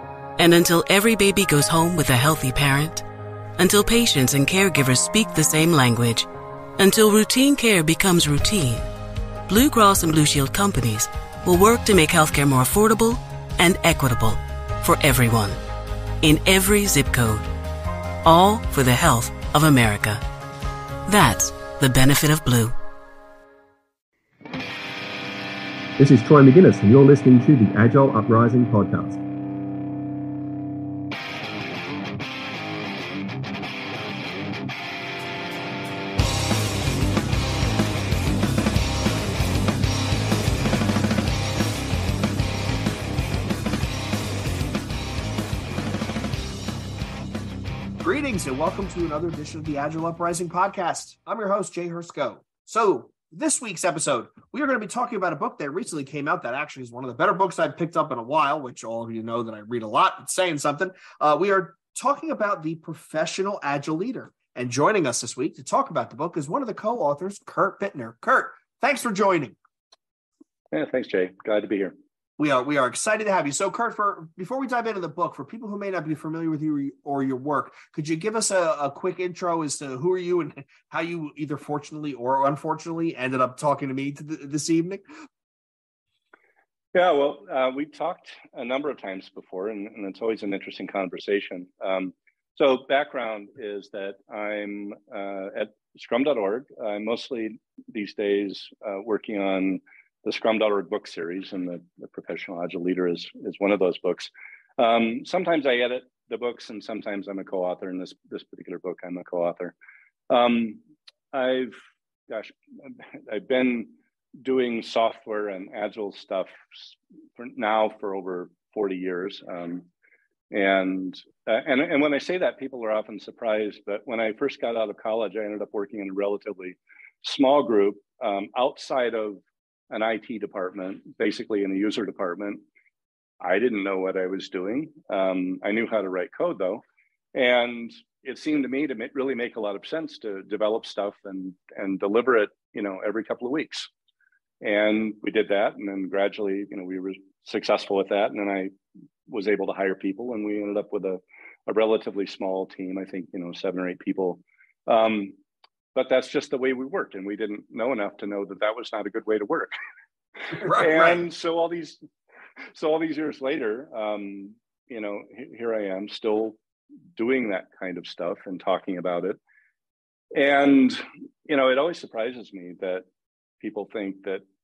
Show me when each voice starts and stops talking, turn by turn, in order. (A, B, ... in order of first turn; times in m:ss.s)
0:00.4-0:03.0 A
0:03.6-0:08.9 A
0:09.5-0:15.6 A
0:16.2-0:17.5 A
0:18.2-0:20.2 A
0:21.1-0:22.8 A
0:26.0-0:29.2 B
0:48.0-1:09.6 C
1:10.7-1:11.9 D
1:12.4-1:25.0 C
1:26.9-1:49.7 D
1:50.3-1:59.9 D
2:00.5-2:12.6 D
2:13.4-2:16.8 D
2:17.3-2:23.9 D
2:24.6-2:28.7 D
2:29.3-2:35.4 D
2:35.9-2:39.7 D
2:40.5-2:42.0 D
2:40.6-2:41.2 C
2:42.7-2:46.6 D
2:47.2-2:49.4 D
2:50.3-2:53.0 D
2:53.6-2:54.4 D